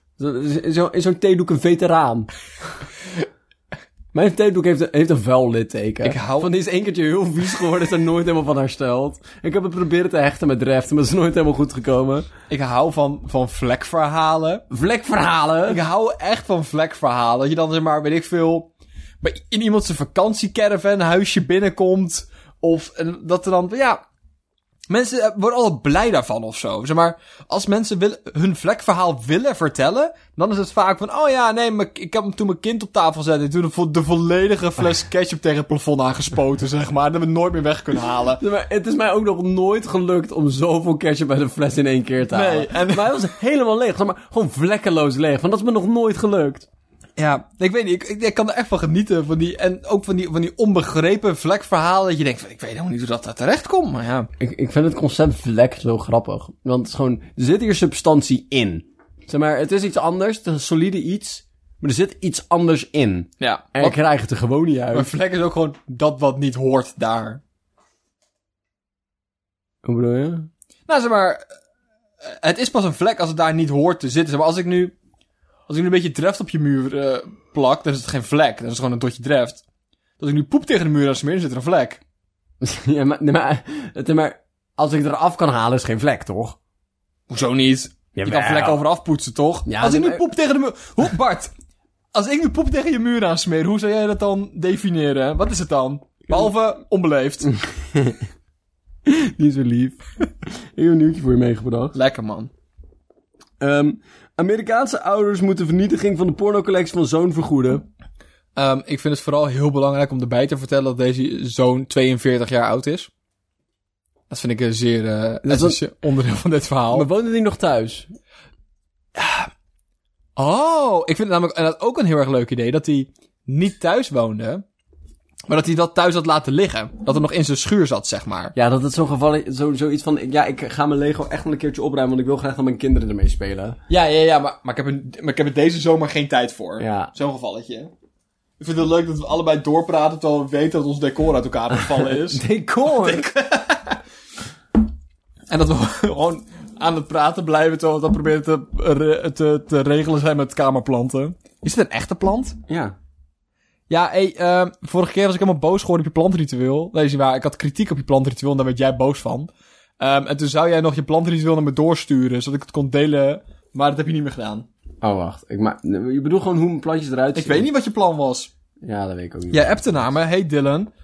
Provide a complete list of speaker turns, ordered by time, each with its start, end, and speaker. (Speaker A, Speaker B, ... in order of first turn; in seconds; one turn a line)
Speaker A: 0.2-2.3
Speaker A: 4.1-12.3
Speaker B: 6.0-6.5
Speaker B: 12.5-14.6
Speaker A: 14.7-15.8
Speaker B: 15.7-18.7
Speaker B: 19.2-24.0
Speaker B: 24.9-38.4
Speaker A: 38.4-46.7
Speaker B: 42.3-43.2
Speaker B: 47.2-54.3
Speaker A: 54.4-65.1
Speaker B: 63.4-64.0
Speaker B: 64.9-67.4
Speaker A: 69.8-70.5
Speaker B: 70.9-71.4
Speaker B: 72.2-74.9
Speaker B: 75.7-79.6
Speaker B: 80.2-82.0
Speaker A: 82.6-86.6
Speaker B: 87.3-91.5
Speaker A: 88.1-88.8
Speaker A: 89.7-90.2
Speaker B: 92.1-97.5
Speaker A: 99.0-100.0
Speaker A: 100.7-101.9
Speaker B: 101.9-102.5
Speaker A: 103.6-107.8
Speaker B: 108.5-113.1
Speaker B: 114.3-117.1
Speaker A: 115.4-115.8
Speaker A: 116.9-118.1
Speaker B: 119.1-119.5
Speaker B: 120.3-124.6
Speaker B: 125.5-128.5
Speaker A: 128.5-133.8
Speaker B: 133.9-137.9
Speaker A: 136.8-137.1
Speaker B: 138.6-144.0
Speaker A: 141.8-143.2
Speaker B: 145.5-152.6
Speaker A: 152.7-152.9
Speaker B: 153.9-164.7
Speaker A: 165.0-167.7
Speaker B: 167.3-168.5
Speaker A: 168.8-169.9
Speaker B: 169.5-170.9